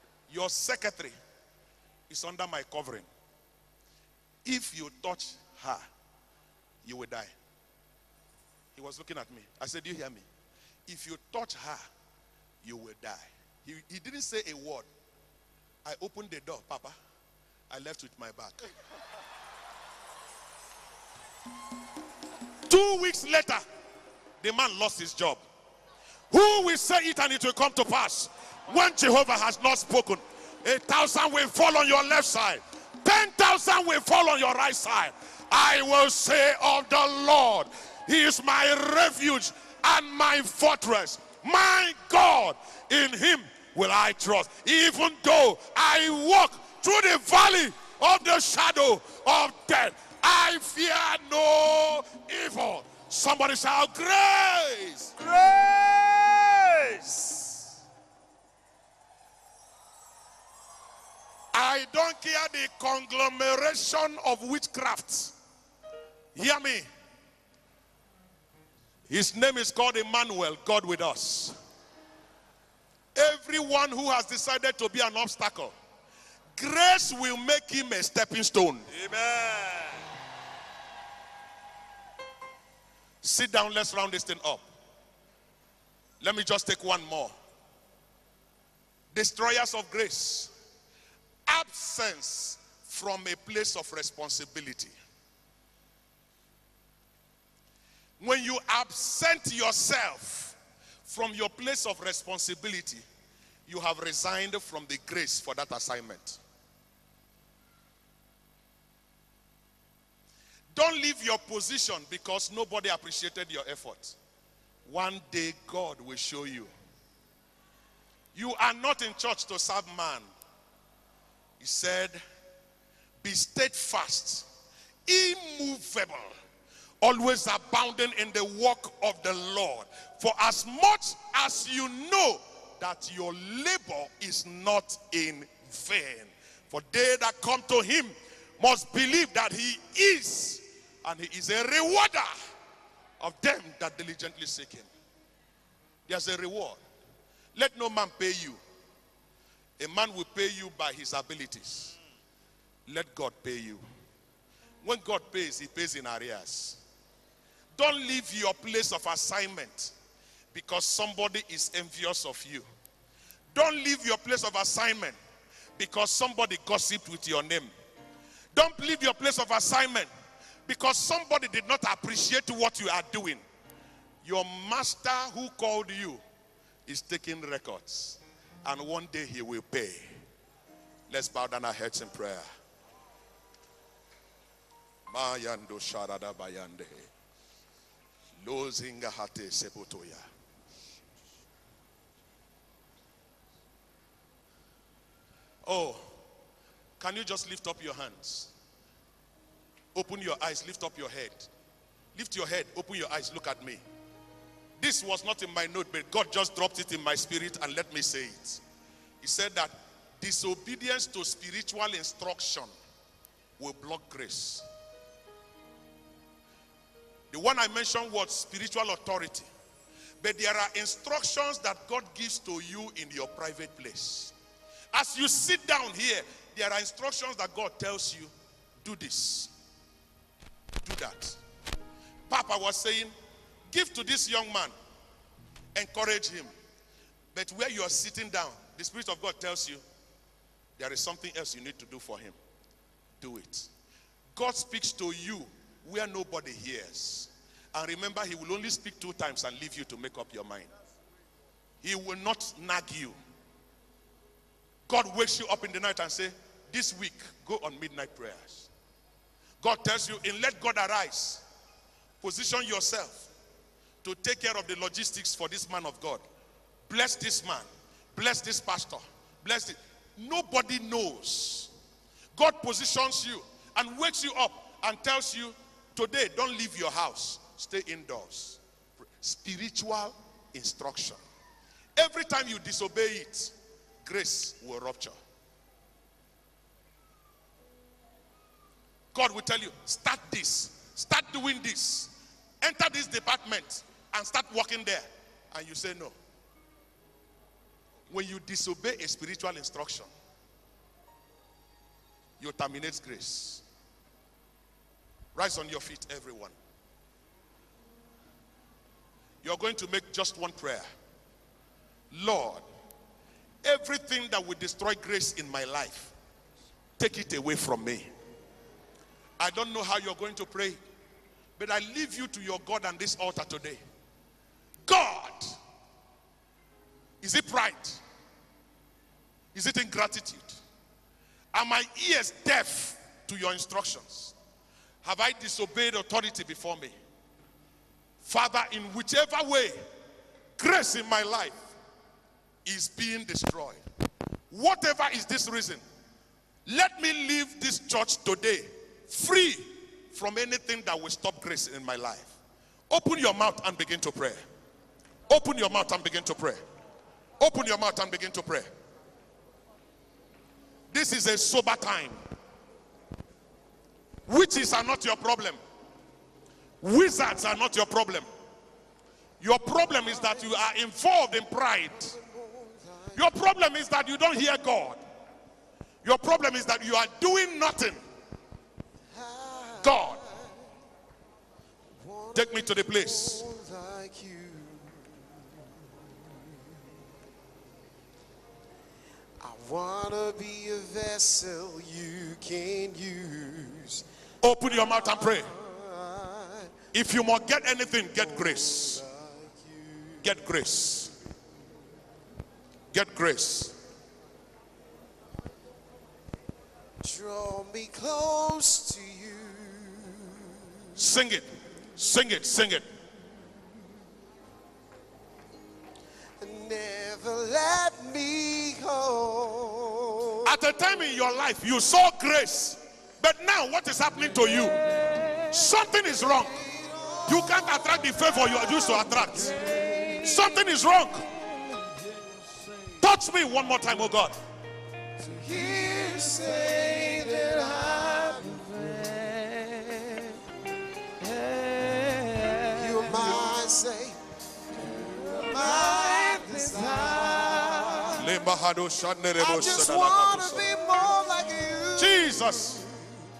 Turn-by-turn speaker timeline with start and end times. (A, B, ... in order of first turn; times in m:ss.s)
0:00.3-0:01.1 A
0:02.1-0:03.1 A
0:04.4-0:05.8 A
0:06.8-0:07.3 A
0:08.7-0:10.2 A
0:10.9-0:11.8 A
0:12.6-0:14.9 A
0:15.8-0:16.9 A
0:17.7-0:18.6 A
0:22.7-0:23.6 A
0:24.4-0:25.4 A
0:26.3-0:55.1 A
0:55.2-0:57.7 B
1:01.5-1:05.3 A
1:06.3-1:06.8 A
1:09.1-1:11.5 A
1:13.1-1:15.7 A
1:16.6-1:18.9 A
1:18.9-1:20.1 B
1:23.2-1:24.6 A
1:26.2-1:27.3 A
1:29.1-1:30.5 A
1:31.5-1:34.9 A
1:38.2-1:43.0 A
1:43.7-1:46.4 A
1:50.7-1:54.2 A
1:54.8-1:56.7 A
1:58.3-2:00.3 A
2:01.6-2:02.2 A
2:03.2-2:04.5 A
2:05.1-2:06.3 A
2:07.0-2:22.3 A
2:23.2-2:24.9 A
2:26.1-2:26.8 A
2:27.5-2:28.6 A
2:29.8-2:31.9 A
2:32.9-2:33.8 A
2:34.8-2:36.8 A
2:37.7-2:39.9 A
2:40.5-2:42.7 A
2:43.5-2:45.2 A
2:45.8-2:47.7 A
2:48.5-2:50.1 A
2:50.6-2:53.4 A
2:54.2-2:56.2 A
2:56.9-3:00.1 A
3:01.1-3:02.4 A
3:05.1-3:07.1 A
3:08.4-3:10.2 A
3:15.6-3:16.0 A
3:17.0-3:18.5 A
3:19.9-3:21.5 A
3:22.1-3:23.8 A
3:24.8-3:28.6 A
3:29.2-3:32.7 A
3:33.6-3:34.6 A
3:37.3-3:39.5 A
3:40.2-3:44.3 A
3:44.9-3:48.3 A
3:48.8-3:49.5 A
3:50.8-3:51.4 A
3:52.3-3:53.1 A
3:53.7-3:54.7 A
3:55.7-3:56.5 A
3:57.3-3:59.8 A
4:00.8-4:02.4 A
4:03.2-4:03.7 A
4:04.3-4:10.7 A
4:11.8-4:13.2 A
4:14.9-4:18.7 A
4:19.6-4:21.4 A
4:22.2-4:23.3 A
4:24.0-4:26.2 A
4:26.9-4:31.7 A
4:32.3-4:38.6 A
4:39.2-4:41.2 A
4:42.0-4:45.1 A
4:49.1-4:56.2 A
4:58.1-5:00.1 A
5:02.4-5:03.6 A
5:05.3-5:06.6 A
5:09.4-5:10.9 A
5:12.1-5:12.6 A
5:13.6-5:16.1 A
5:17.0-5:18.1 A
5:19.4-5:20.8 A
5:21.6-5:23.8 A
5:24.8-5:25.6 A
5:27.2-5:28.0 A
5:29.5-5:30.6 A
5:31.5-5:34.3 A
5:35.0-5:36.9 A
5:38.2-5:39.8 A
5:40.6-5:41.6 A
5:42.6-5:43.8 A
5:44.5-5:45.8 A
5:46.6-5:52.3 A
5:52.9-5:54.4 A
5:55.3-5:56.6 A
5:57.4-5:58.7 A
6:00.9-6:02.2 A
6:04.3-6:05.6 A
6:06.8-6:08.3 A
6:09.4-6:12.1 A
6:10.2-6:10.6 C
6:11.9-6:13.2 C
6:13.1-6:15.0 A
6:16.0-6:18.0 A
6:19.1-6:20.7 C
6:19.8-6:20.2 A
6:22.0-6:25.6 C
6:22.3-6:23.4 A
6:29.4-6:34.0 C
6:34.4-6:35.5 A
6:35.0-6:36.7 C
6:36.9-6:39.0 A
6:38.2-6:40.2 C
6:40.2-6:41.1 A
6:42.9-6:43.7 A
6:47.0-6:50.6 C
6:51.0-6:52.8 A
6:56.4-7:00.5 C
7:00.4-7:04.8 A
7:05.5-7:06.5 A
7:06.5-7:10.2 C
7:07.3-7:09.5 A
7:10.2-7:11.2 A
7:13.0-7:14.3 A
7:15.2-7:20.4 C
7:22.7-7:24.2 C
7:25.1-7:28.2 C
7:28.2-7:30.7 A
7:29.4-7:33.0 C
7:32.0-7:32.8 A